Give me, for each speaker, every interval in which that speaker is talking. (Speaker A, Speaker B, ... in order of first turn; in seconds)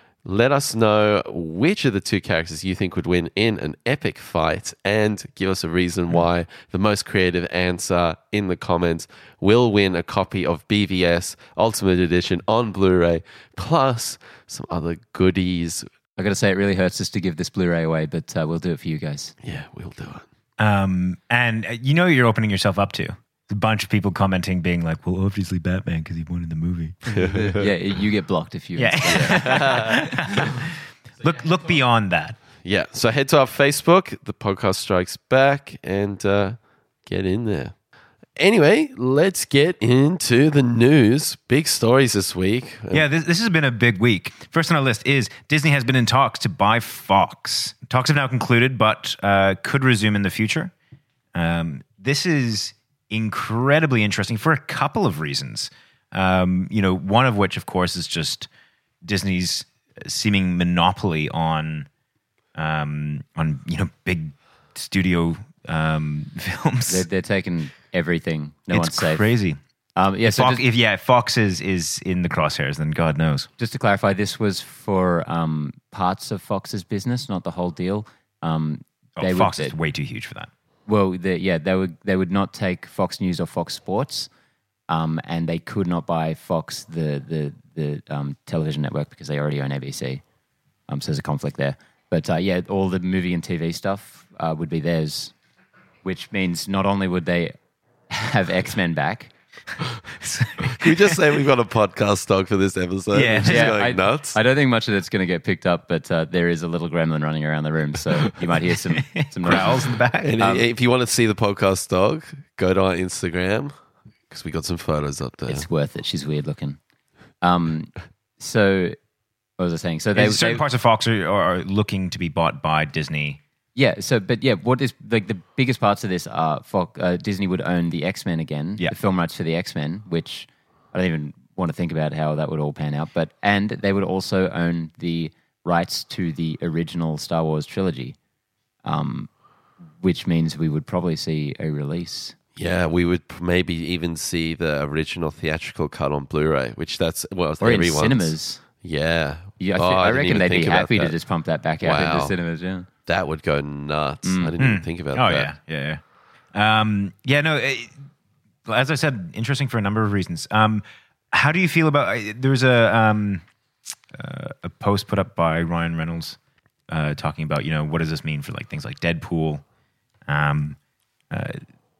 Speaker A: 0.2-15.9, 19.4-20.2, 27.1-27.7, 29.1-30.1, 32.6-37.7, 38.4-43.1, 100.7-104.4, 110.2-113.7, 114.3-115.7, 142.6-151.2, 151.8-152.3, 153.1-155.5
Speaker B: 16.2-19.3, 27.2-30.2, 66.9-69.3, 70.0-70.6, 73.6-79.8, 80.9-84.3, 84.9-90.2, 90.9-95.3, 96.0-97.5, 98.1-99.3, 103.4-109.8, 110.4-110.7, 115.5-116.8, 117.4-119.0, 119.6-120.6, 123.8-138.2, 138.8-139.3, 140.0-142.4, 147.6-148.6, 149.6-152.9, 154.2-154.5
Speaker C: 20.6-27.1, 28.8-32.4, 42.9-50.7, 51.3-58.5, 59.0-61.9, 62.6-67.0, 68.7-69.6, 70.2-73.5, 79.2-80.5, 100.2-101.2, 103.1-103.8, 108.7-110.4, 120.2-123.4, 154.6-156.0, 156.5-157.9, 158.7-163.4, 164.1-166.4, 166.9-169.6, 170.3-170.8, 171.3-171.6